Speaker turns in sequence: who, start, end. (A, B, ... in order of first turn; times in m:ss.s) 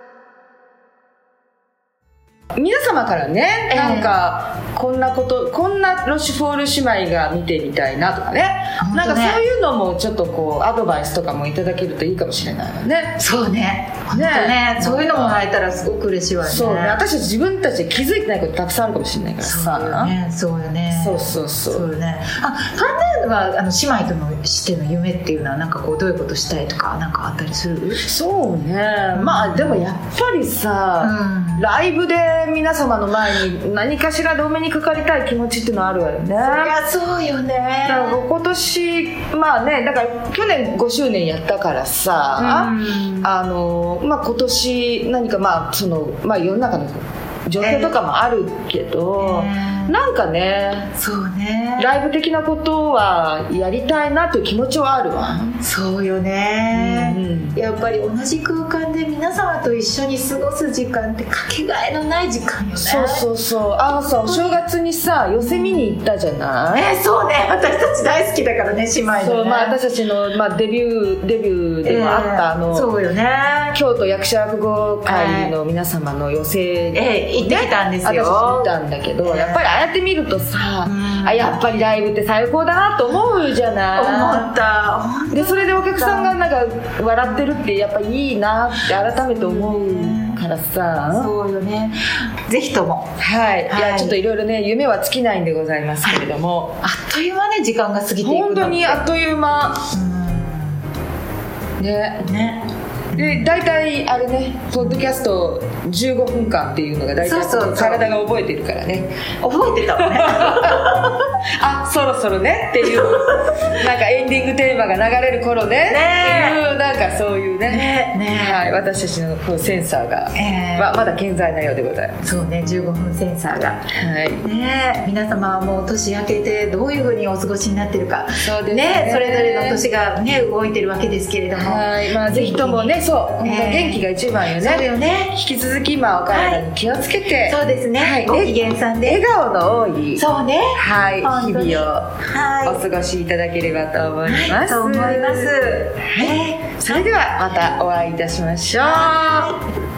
0:02.5-0:13.2 A
0:03.7-0:04.2 B
0:08.8-0:09.4 B
0:13.2-0:17.0 B
0:14.1-0:15.4 A
0:16.4-0:20.1 A
0:19.4-0:28.0 B
0:20.9-0:21.9 A
0:28.0-0:36.8 A
0:29.1-0:29.9 B
0:31.0-0:31.7 B
0:36.4-0:38.2 B
0:37.8-0:50.9 A
0:42.4-0:43.3 B
0:47.6-0:48.0 B
0:49.2-0:50.0 B
0:51.0-0:51.9 B
0:51.8-0:55.6 A
0:55.6-1:03.3 B
0:56.7-0:57.6 A
1:02.8-1:06.9 A
1:04.2-1:04.6 B
1:05.4-1:05.9 B
1:06.7-1:09.8 B
1:09.2-1:12.9 A
1:11.8-1:13.8 B
1:13.7-1:24.5 A
1:15.0-1:15.5 B
1:16.9-1:19.9 B
1:20.8-1:21.8 B
1:23.9-1:26.4 B
1:25.3-1:31.3 A
1:29.3-1:30.4 B
1:31.0-1:33.1 B
1:33.2-1:36.8 A
1:33.7-1:34.2 B
1:36.8-1:39.0 B
1:38.2-1:39.9 A
1:39.9-1:40.8 B
1:41.8-1:42.3 A
1:42.2-1:43.5 B
1:43.1-1:49.2 A
1:44.8-1:45.1 B
1:47.2-1:48.1 B
1:49.4-1:51.1 B
1:50.0-2:02.2 A
1:52.9-1:53.7 B
1:55.8-1:56.6 B
1:57.7-1:58.7 B
2:00.3-2:01.1 B
2:02.2-2:03.9 B
2:03.9-2:04.4 A
2:04.4-2:14.0 B
2:08.4-2:09.8 A
2:11.6-2:20.2 A
2:14.6-2:15.4 B
2:16.3-2:16.7 B
2:17.4-2:19.2 B
2:20.2-2:22.8 B
2:20.8-2:22.1 A
2:22.6-2:29.6 A
2:24.2-2:27.0 B
2:28.7-2:29.5 B